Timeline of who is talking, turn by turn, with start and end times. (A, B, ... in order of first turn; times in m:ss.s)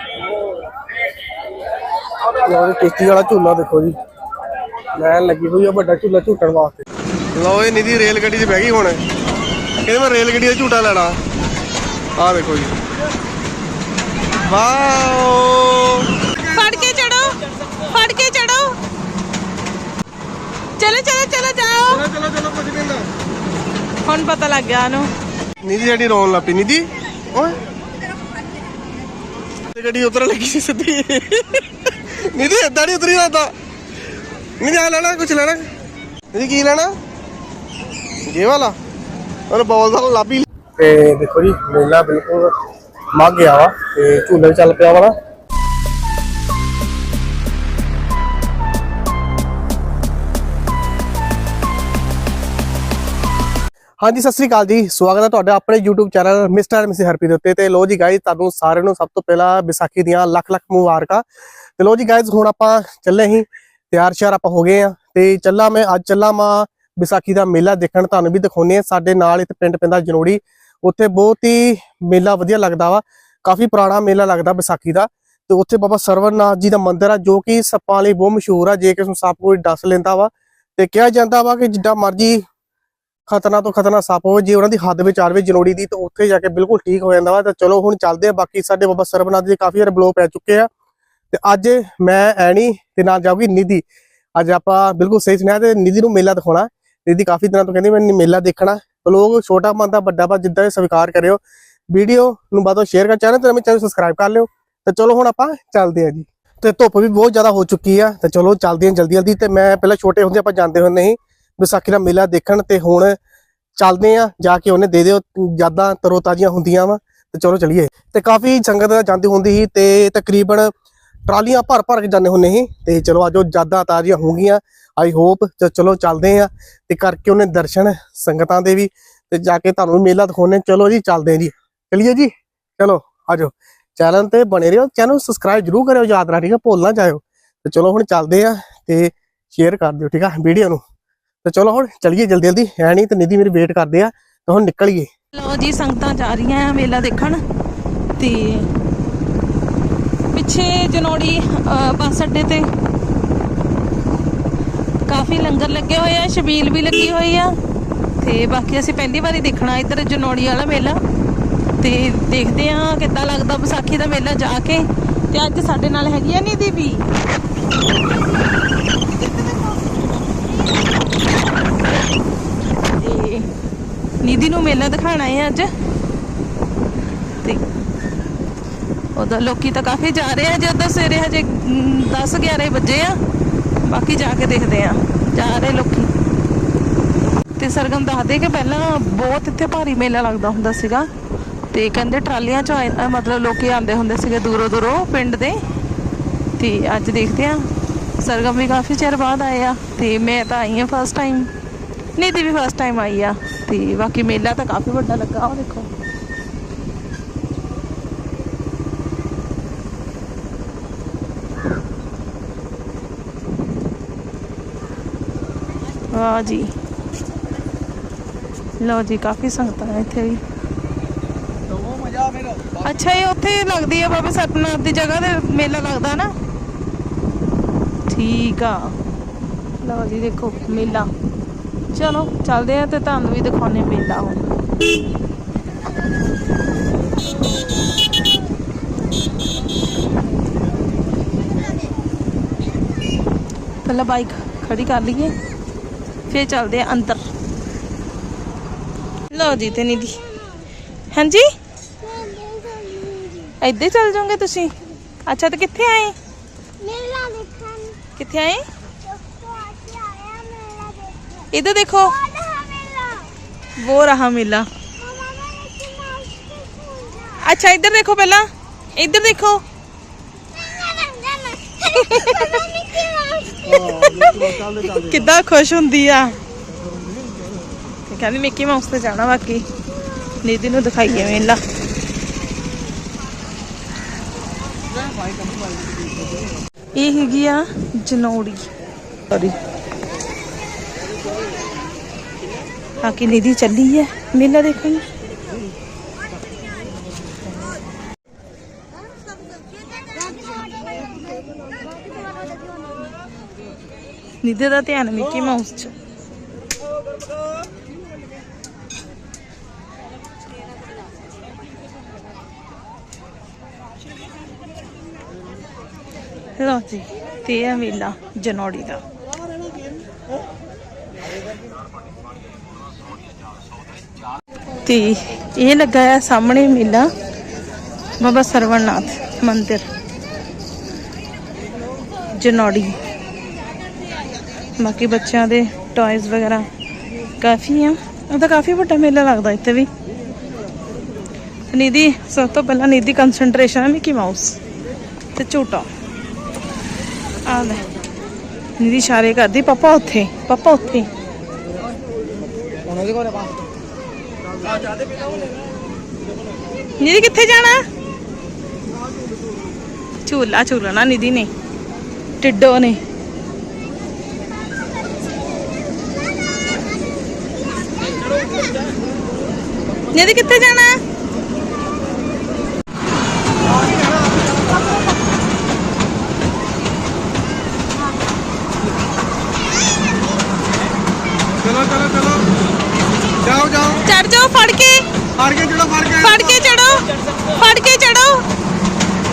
0:02.4-0:03.9 A
0:04.9-0:09.0 A
0:09.8-0:11.2 A
0:12.2-0:12.8 A
0:14.4-0:16.3 A
0:16.5-0:18.7 B
0:20.8-0:22.0 B
0:21.9-0:23.0 A
0:24.0-0:25.1 B
0:25.6-0:27.6 A
0:29.7-0:33.5 A
0:34.6-0:35.6 A
0:36.3-0:36.9 A
0:38.3-0:38.8 A
0:39.5-0:42.5 A
0:43.1-0:45.1 A
0:54.0-1:01.2 A
1:01.8-1:22.4 A
1:23.3-1:30.7 A
1:31.3-1:33.8 A
1:34.4-1:41.4 A
1:41.9-1:53.2 A
1:53.8-2:00.7 A
2:01.3-2:20.8 A
2:21.4-2:25.1 A
2:25.3-2:27.4 B
2:28.2-2:28.7 B
2:30.3-2:32.7 B
2:35.0-2:37.5 B
2:38.2-2:41.0 B
2:41.8-2:47.0 B
2:53.0-2:53.5 B
2:54.2-2:55.7 B
2:59.1-3:03.2 B
3:03.8-3:06.1 B
3:07.6-3:11.1 B
3:11.7-3:15.6 B
3:16.6-3:17.7 B
3:18.2-3:21.5 B
3:22.2-3:25.9 B
3:36.1-3:36.7 B
3:38.8-3:40.4 B
3:42.8-3:46.3 B
3:48.1-3:49.0 B
3:49.8-3:51.1 B
3:51.9-3:54.4 B
4:03.8-4:05.3 B
4:06.3-4:07.2 B
4:09.3-4:10.2 B
4:11.1-4:11.4 B
4:12.1-4:13.5 C
4:13.6-4:14.7 B
4:15.2-4:16.2 B
4:16.8-4:18.1 C
4:18.1-4:18.6 B
4:19.3-4:21.1 C
4:21.5-4:22.2 B
4:22.3-4:23.3 C
4:23.8-4:24.7 B
4:25.1-4:27.3 C
4:27.4-4:29.6 B
4:30.8-4:31.6 C
4:31.8-4:32.7 B
4:33.7-4:36.4 B
4:33.9-4:34.8 A
4:38.1-4:39.6 B
4:40.4-4:41.6 B
4:47.0-4:48.7 B
4:49.3-4:49.6 B
4:53.0-4:55.1 B
5:04.4-5:05.9 B
5:16.6-5:19.0 B
5:24.8-5:27.1 B
5:28.2-5:29.8 B
5:32.3-5:33.0 B
5:34.8-5:36.7 B
5:37.4-5:39.9 B
5:41.7-5:44.6 B
5:45.4-5:45.9 B
5:47.4-5:47.8 B
5:48.8-5:51.1 B
5:57.0-5:57.8 B
6:00.2-6:01.5 B
6:02.4-6:03.0 B
6:10.1-6:11.0 B
6:21.6-6:22.4 A
6:23.4-6:24.0 A
6:24.0-6:25.0 B
6:25.4-6:26.6 A
6:26.2-6:28.4 B